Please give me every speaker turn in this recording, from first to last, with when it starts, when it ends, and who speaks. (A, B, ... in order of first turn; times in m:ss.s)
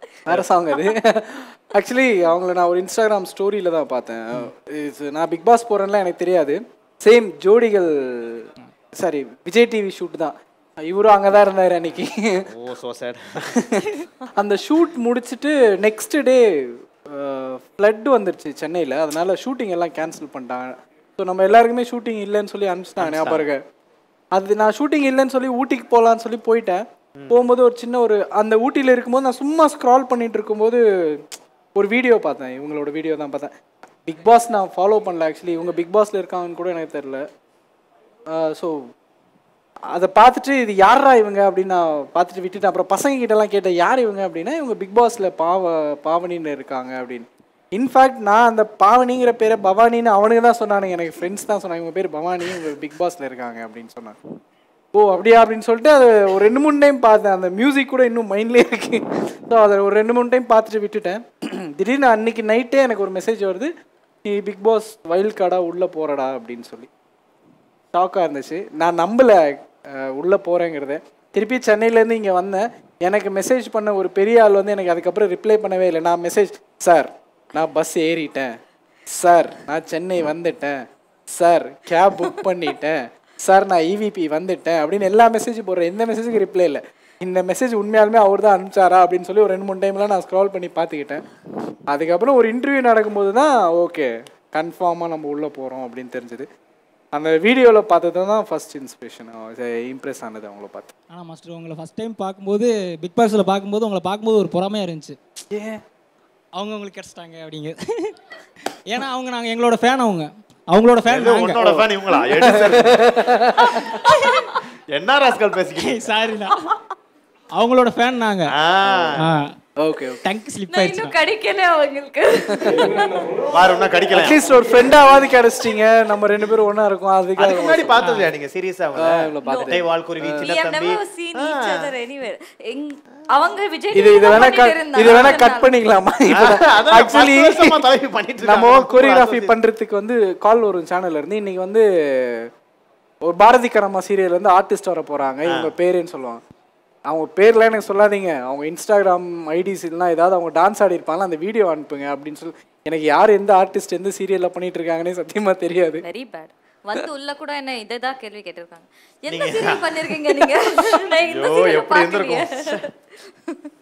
0:00.3-0:12.4 A
0:12.5-0:13.5 B
0:13.6-0:23.6 A
0:23.0-0:23.4 B
0:24.3-0:33.5 A
0:34.0-0:37.2 A
0:38.3-0:38.8 A
0:39.9-0:54.2 A
0:54.9-1:03.7 A
1:04.2-1:06.9 A
1:07.9-1:18.5 A
1:19.1-1:31.2 A
1:31.9-1:36.5 A
1:37.1-1:40.9 A
1:41.1-1:45.2 C
1:45.5-1:45.8 A
1:46.6-1:48.2 C
1:48.9-1:51.7 C
1:51.0-1:53.1 B
1:52.4-1:54.0 A
1:54.0-1:54.4 C
1:54.9-1:56.2 B
1:55.8-1:56.5 C
1:57.5-1:58.5 C
1:58.6-1:59.3 B
1:59.1-1:59.5 C
1:59.8-2:00.2 A
2:00.2-2:01.1 C
2:00.7-2:03.4 D
2:02.6-2:02.9 A
2:03.5-2:04.4 B
2:04.1-2:08.0 A
2:07.4-2:11.9 B
2:08.0-2:08.3 C
2:09.0-2:10.5 A
2:09.4-2:09.8 D
2:10.4-2:15.7 D
2:13.9-2:17.8 A
2:15.0-2:15.3 B
2:16.3-2:19.6 B
2:18.4-2:22.5 A
2:23.2-2:26.4 A
2:27.1-2:36.0 A
2:36.0-2:42.9 D
2:39.3-2:39.8 B
2:41.2-2:42.8 B